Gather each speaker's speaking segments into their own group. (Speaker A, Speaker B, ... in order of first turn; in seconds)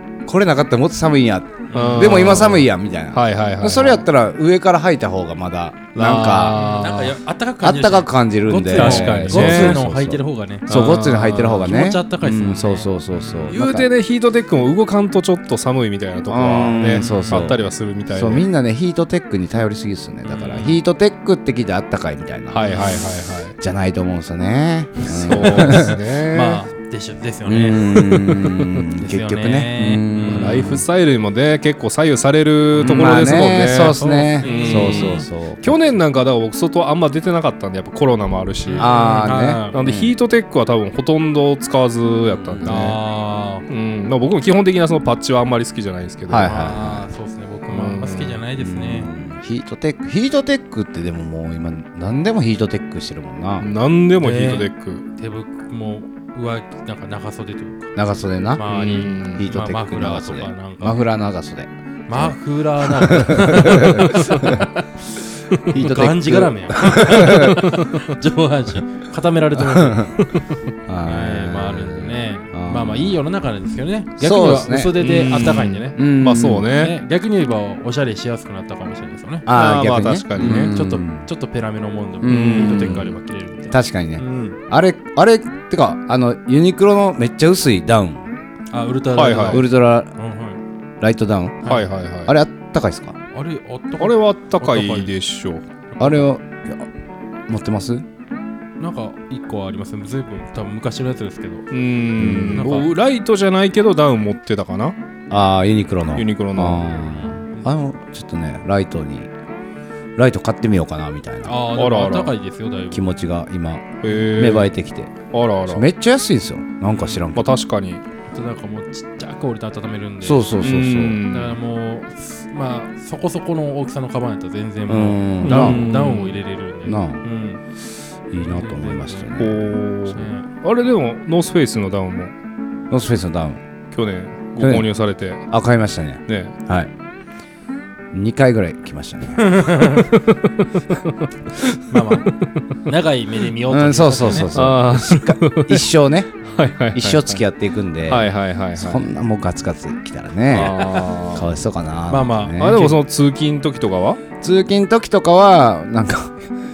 Speaker A: 0.3-6.6, 7.6-13.9, 16.3-17.6, 18.1-23.0, 23.6-26.0, 27.5-30.8, 32.8-36.0, 38.8-40.1, 42.3-42.9, 46.3-47.1, 48.6-53.7, 58.0-58.7, 59.2-64.7, 65.7-67.6, 69.7-70.1, 70.9-73.2, 74.2-74.9, 76.0-76.7, 79.5-81.3, 82.2-83.2, 83.7-88.3, 89.5-90.1, 91.0-91.7, 92.3-93.2, 96.0-96.9, 97.5-98.1, 102.2-102.7, 105.3-109.3, 110.2-111.6, 112.9-115.1, 115.7-117.5, 120.2-121.2, 124.9-125.9, 126.8-127.2, 128.3-129.7, 132.9-133.6, 134.6-134.9, 135.5-136.9, 138.1-139.7, 143.7-146.3, 146.9-152.8, 154.4-156.4
Speaker B: 1.7-2.5, 6.5-10.8, 11.4-13.6, 16.9-17.5, 20.3-20.8, 25.7-30.7, 32.8-35.3, 38.7-39.8, 42.6-43.7, 46.4-49.1, 54.2-58.0, 58.6-61.0, 62.1-70.2, 71.0-76.0, 76.7-79.5, 80.4-84.6, 88.7-90.6, 93.3-95.1, 95.9-96.3, 98.8-101.7, 102.5-102.9, 107.1-107.7, 111.5-113.1, 116.9-117.2, 118.3-120.5, 121.3-127.6, 128.4-129.3, 130.1-130.5, 139.4-140.1, 141.9-142.3, 142.9-144.6, 152.1-153.0
Speaker C: 1.7-4.0, 6.0-7.2, 8.7-9.8, 10.7-11.7, 13.5-18.5, 22.5-23.6, 25.1-26.6, 30.3-38.9, 39.7-43.0, 43.7-46.5, 47.7-48.4, 53.6-55.1, 58.7-59.4, 67.3-67.8, 75.0-76.9, 79.5-80.7, 82.3-83.0, 89.1-89.6, 91.7-92.3, 94.0-95.7, 101.7-105.0, 106.2-107.0, 111.8-112.3, 114.0-114.7, 115.3-115.9, 117.3-118.0, 120.6-121.6, 125.4-126.4, 129.4-132.3, 133.9-135.5, 136.3-136.6, 140.2-142.4, 144.5-145.9, 146.5-147.4, 148.1-149.1, 150.5-151.5, 152.6-154.2